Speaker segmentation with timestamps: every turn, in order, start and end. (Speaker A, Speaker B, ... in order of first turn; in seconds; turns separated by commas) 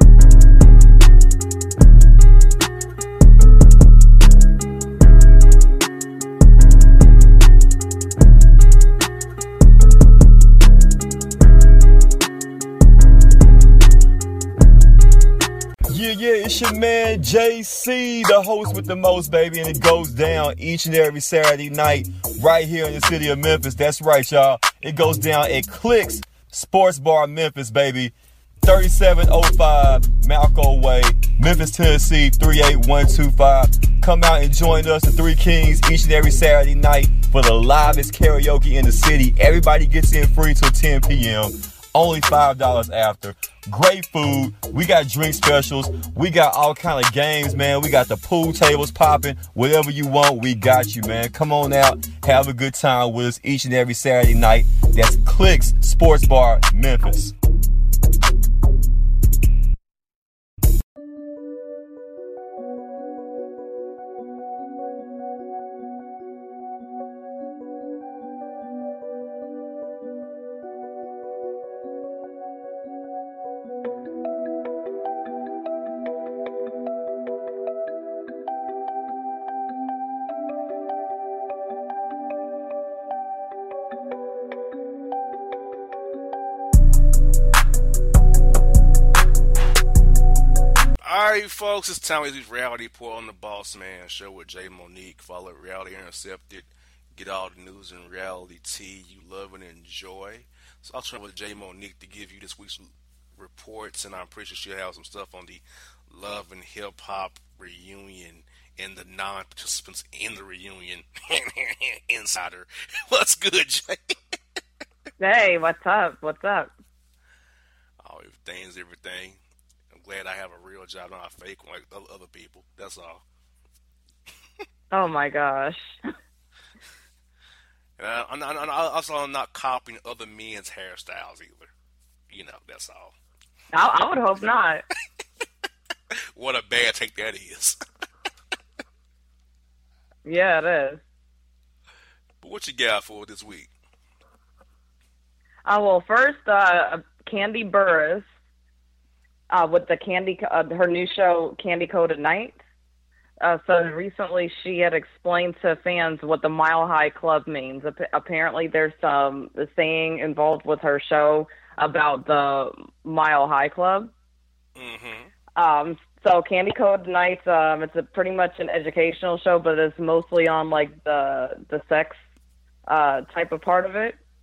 Speaker A: 15.9-57.3, Speaker B: 91.0-114.1, Speaker C: 115.2-116.7, Speaker B: 118.0-119.4, Speaker B: 119.9-123.2, Speaker C: 124.9-126.0, Speaker B: 128.0-131.7, Speaker B: 132.3-133.1, Speaker C: 133.7-134.8, Speaker B: 136.3-137.8, Speaker C: 140.2-141.0, Speaker B: 142.4-143.7, Speaker C: 145.6-148.2, Speaker C: 149.5-152.6, Speaker C: 153.4-164.1, Speaker B: 164.8-165.3, Speaker C: 165.6-172.2, Speaker C: 172.9-174.2